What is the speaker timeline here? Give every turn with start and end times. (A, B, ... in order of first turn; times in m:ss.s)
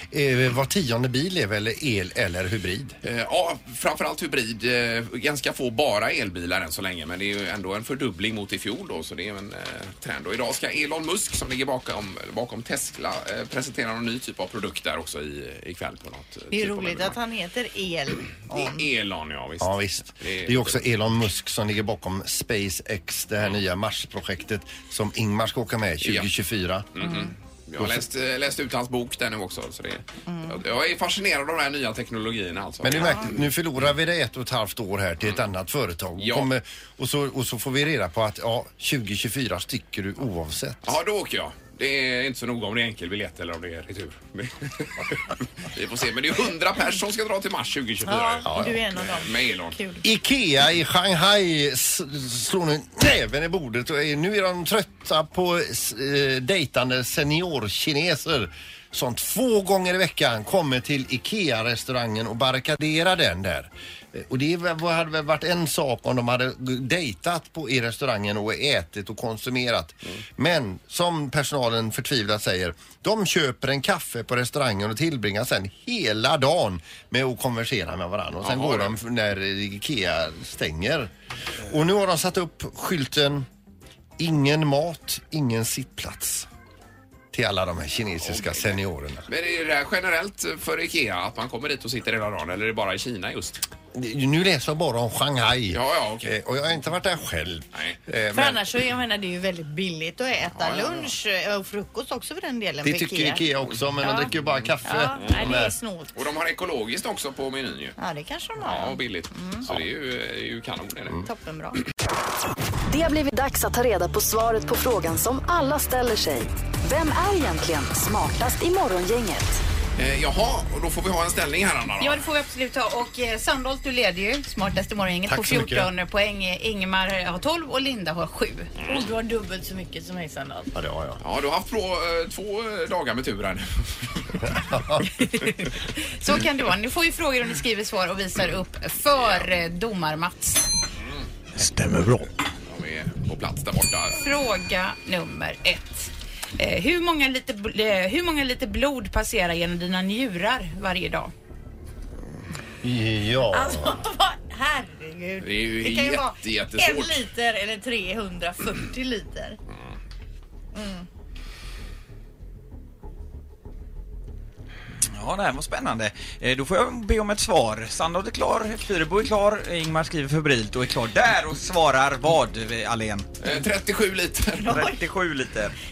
0:00.1-0:03.0 A
0:03.0-0:17.2 B
0:16.5-0:18.9 C
0:18.5-0:20.8 B
0:19.6-0:26.9 A
0:26.0-0:26.3 B
0:27.0-0:33.5 B
0:27.0-0:27.3 C
0:27.8-0:28.0 A
0:30.3-0:30.6 C
0:32.8-0:41.0 A
0:36.2-0:36.5 B
0:40.8-0:49.8 B
0:48.0-0:50.1 C
0:48.5-0:48.8 A
0:50.0-1:21.1 A
1:18.4-1:19.0 B
1:21.7-1:23.5 A
1:24.2-1:26.5 A
1:27.3-1:29.3 A
1:28.2-1:33.6 B
1:33.9-1:38.6 A
1:35.7-1:36.3 B
1:37.7-1:38.0 B
1:38.3-1:43.4 C
1:40.6-1:41.1 B
1:42.8-1:45.8 A
1:44.0-1:44.3 C
1:44.5-1:45.5 B
1:44.8-1:46.1 C
1:46.2-1:48.0 B
1:48.0-1:49.7 C
1:48.6-1:51.2 B
1:51.2-1:51.8 C
1:52.9-1:59.6 D
2:00.0-2:02.2 B
2:02.0-2:08.7 E
2:05.3-2:05.9 A
2:08.8-2:09.0 B
2:08.9-2:10.7 C
2:10.8-2:11.2 A
2:11.2-2:14.6 B
2:14.4-2:15.1 A
2:15.2-2:20.7 E
2:19.1-2:19.5 B
2:21.6-2:22.3 F
2:22.7-2:24.2 B
2:24.2-2:31.3 E
2:32.8-2:34.0 A
2:33.5-2:39.6 C
2:35.4-2:37.2 B
2:40.7-2:41.1 C
2:45.2-2:53.6 F
2:53.4-2:54.8 B
2:54.6-2:55.0 C
2:54.7-2:55.7 F